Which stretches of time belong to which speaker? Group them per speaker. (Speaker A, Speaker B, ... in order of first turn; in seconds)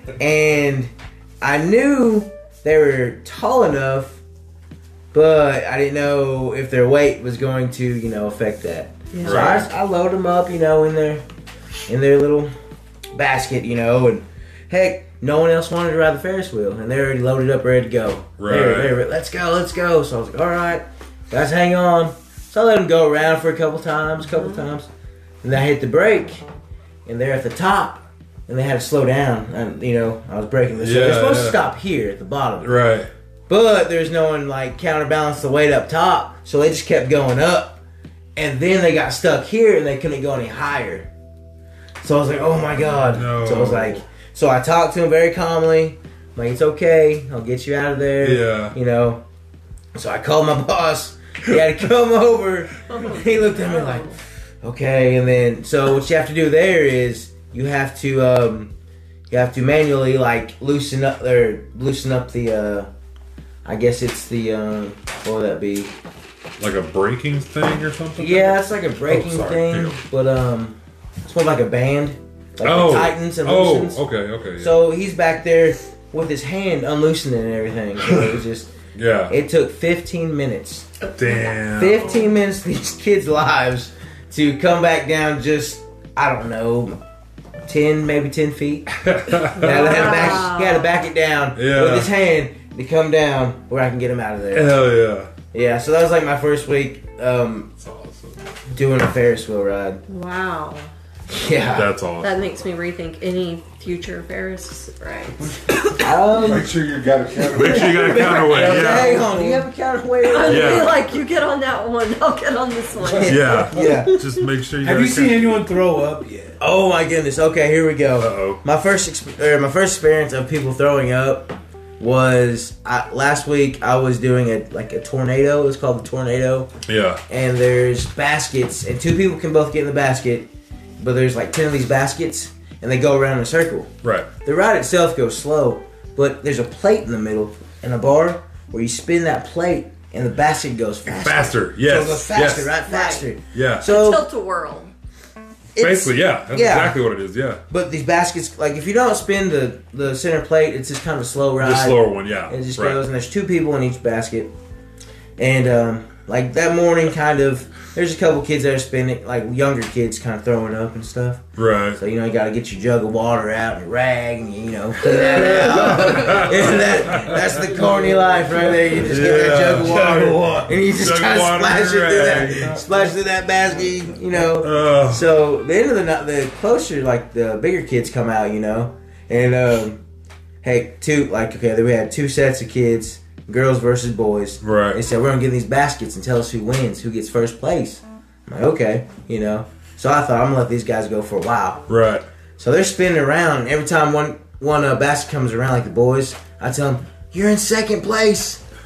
Speaker A: 0.2-4.2, 5.1-11.2, 11.9-12.5, 13.1-24.9, 25.4-26.4, 27.1-32.8, 33.5-37.8, 38.4-41.1, 42.0-49.2, 49.9-58.7, 59.3-62.9, 63.6-65.9, 68.2-74.0, 74.6-78.7, 79.3-80.9, 81.7-87.0, 87.7-88.9, 89.6-94.9, 95.5-97.7, 98.7-100.0, 101.3-101.9, 106.0-106.8, 107.5-111.0, 113.1-114.2, 116.6-126.7, 127.3-130.5, 131.0-133.9, 134.4-144.2, 145.8-147.0, 147.7-154.5, 155.4-161.4, 161.9-180.0, 180.6-191.9, 192.6-198.6
Speaker B: 9.1-9.6, 52.9-54.1, 89.5-90.9, 100.1-100.9, 102.2-106.0, 110.2-113.4, 142.9-143.3, 143.8-144.9, 165.4-165.7
Speaker C: 9.2-9.7, 18.4-19.0, 30.8-31.6, 32.6-33.1, 42.4-44.0, 48.2-48.8, 66.6-70.0, 72.6-74.8, 78.9-79.3, 81.2-82.3, 89.0-90.3, 91.5-92.1, 94.5-95.3, 97.8-98.4, 101.7-102.3, 107.5-109.3, 110.4-111.0, 113.2-115.6, 118.2-118.6, 126.9-127.2, 134.0-134.3, 141.1-142.8, 143.5-143.9, 145.8-147.6, 151.6-153.0, 161.6-162.0, 165.3-167.6, 168.9-172.8, 174.3-175.3, 184.6-185.0, 191.9-192.2
Speaker D: 106.2-109.6, 113.0-114.0
Speaker E: 114.8-116.6, 169.8-170.7